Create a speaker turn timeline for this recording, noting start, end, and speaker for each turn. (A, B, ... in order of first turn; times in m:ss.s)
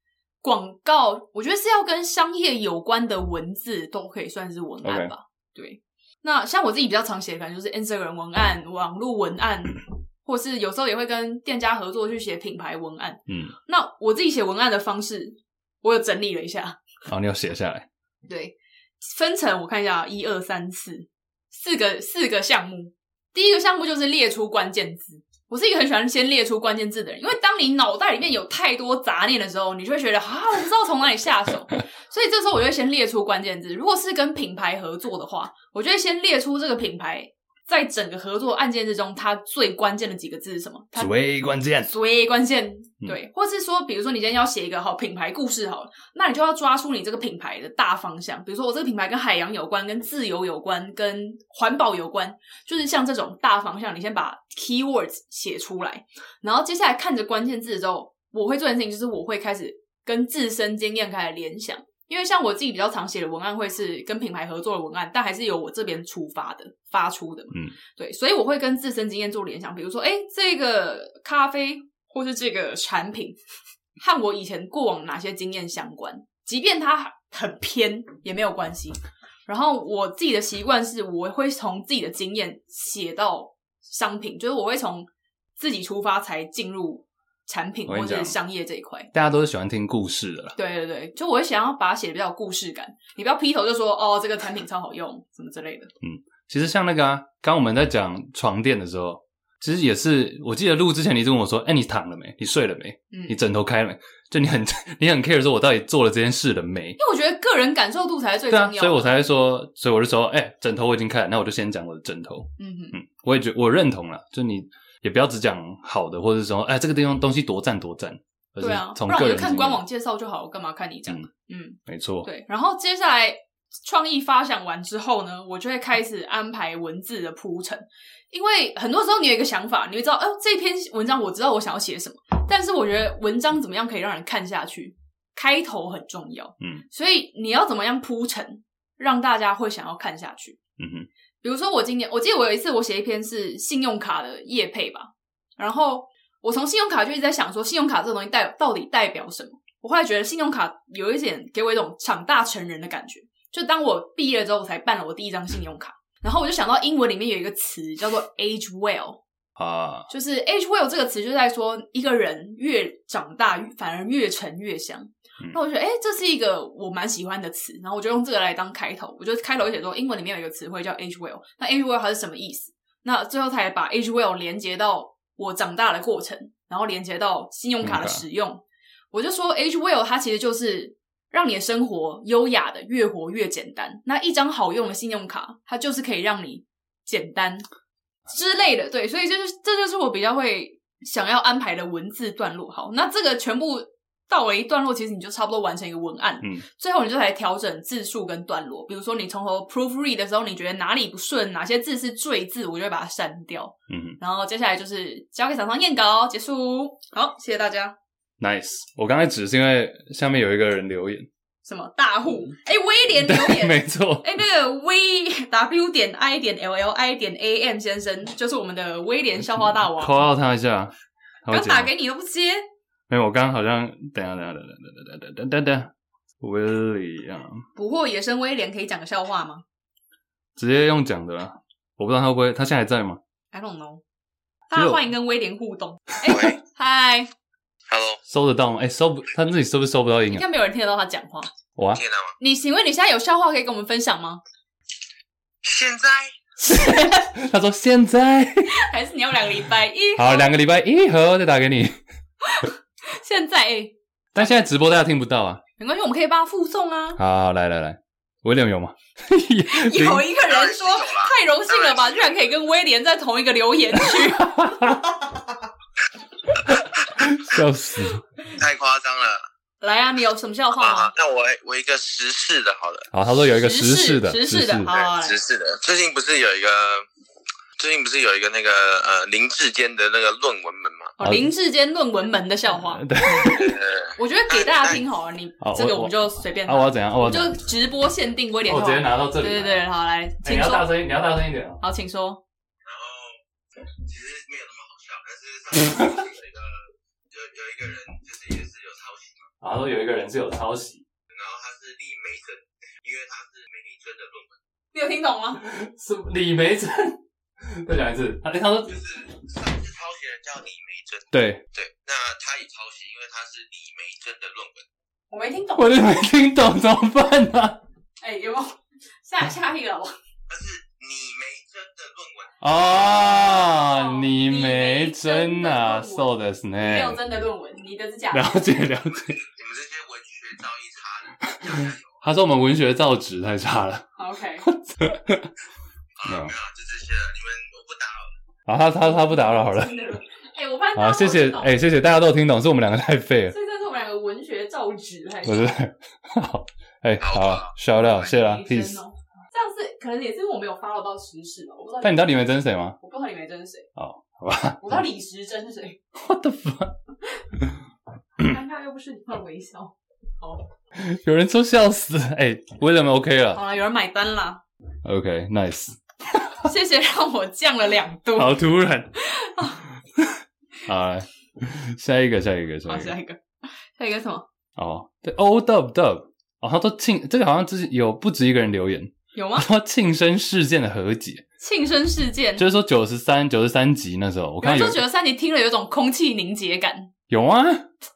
0:00.4-0:16.8 A
0:04.8-0:05.1 B
0:13.3-0:13.5 B
0:17.1-0:17.9 B
0:18.3-0:41.1 A
0:41.0-0:41.9 B
0:41.8-1:13.4 A
1:14.0-1:29.1 A
1:27.9-1:28.4 B
1:29.1-1:30.6 B
1:30.6-1:35.9 A
1:36.0-1:47.0 B
1:43.1-1:43.4 A
1:47.0-1:49.1 A
1:48.5-1:59.8 B
1:52.6-1:53.0 A
1:58.6-2:20.6 A
2:01.9-2:02.3 B
2:16.6-2:16.8 B
2:20.8-2:21.1 B
2:21.4-2:39.2 A
2:39.6-2:40.1 B
2:40.1-3:07.6 A
2:57.8-2:58.2 B
3:08.3-3:27.9 A
3:23.9-3:24.2 B
3:28.4-3:31.3 B
3:31.6-3:40.3 A
3:33.2-3:34.3 B
3:39.6-3:40.9 B
3:41.4-3:41.9 B
3:41.5-3:42.6 A
3:43.1-3:47.6 B
3:47.8-3:49.6 A
3:50.6-3:53.2 B
3:53.5-3:54.0 A
3:54.7-3:57.3 A
3:54.7-3:55.1 B
3:56.3-3:56.6 C
3:57.9-3:58.2 C
3:58.2-4:00.5 B
4:00.3-4:01.5 A
4:01.8-4:02.0 B
4:01.9-4:02.3 C
4:02.4-4:04.4 A
4:05.6-4:06.3 C
4:06.6-4:07.3 A
4:06.7-4:08.8 B
4:08.7-4:10.5 A
4:10.2-4:12.0 B
4:12.4-4:14.5 A
4:14.3-4:15.6 B
4:15.8-4:17.2 A
4:17.2-4:20.3 B
4:19.7-4:25.4 A
4:20.5-4:22.5 C
4:24.0-4:25.0 B
4:26.7-4:28.2 B
4:28.5-4:29.4 C
4:29.8-4:31.1 A
4:30.8-4:33.1 C
4:33.1-4:34.9 B
4:33.6-4:35.4 A
4:34.9-4:37.1 C
4:37.8-4:41.1 C
4:41.2-4:50.9 A
4:41.2-4:41.5 B
4:42.7-4:43.7 B
4:43.4-4:45.0 C
4:45.6-4:47.5 B
4:48.7-4:49.9 B
4:50.4-4:51.8 B
4:51.8-4:52.4 A
4:52.8-4:53.4 C
4:54.0-4:59.5 C
4:59.6-5:01.0 B
5:01.3-5:04.6 C
5:04.9-5:05.6 A
5:05.6-5:09.0 B
5:08.9-5:14.8 C
5:11.3-5:11.6 B
5:15.3-5:16.2 A
5:15.8-5:17.8 B
5:18.2-5:20.2 A
5:20.5-5:23.5 C
5:22.6-5:27.2 B
5:23.2-5:26.3 A
5:26.8-5:28.6 A
5:28.3-5:29.4 B
5:29.3-5:32.2 C
5:31.5-5:34.1 B
5:34.2-5:34.7 A
5:34.6-5:35.5 B
5:36.2-5:38.3 C
5:36.3-5:36.5 B
5:38.7-5:39.9 B
5:39.0-5:41.7 A
5:41.0-5:43.5 B
5:43.5-5:45.8 A
5:45.4-5:49.0 B
5:47.2-5:47.8 C
5:48.0-5:52.3 A
5:52.0-5:53.0 B
5:53.0-5:53.9 A
5:54.0-5:55.0 B
5:54.8-5:56.0 A
5:56.2-5:57.0 B
5:58.4-6:00.6 A
6:01.0-6:03.6 B
6:03.5-6:04.6 A
6:05.0-6:06.0 B
6:06.6-6:08.6 A
6:08.4-6:09.1 B
6:09.2-6:09.8 A
6:10.2-6:13.1 B
6:12.9-6:14.5 A
6:14.8-6:21.4 B
6:19.4-6:19.7 A
6:21.6-6:22.6 A
6:22.6-6:25.0 B
6:24.6-6:27.1 A
6:27.3-6:27.9 B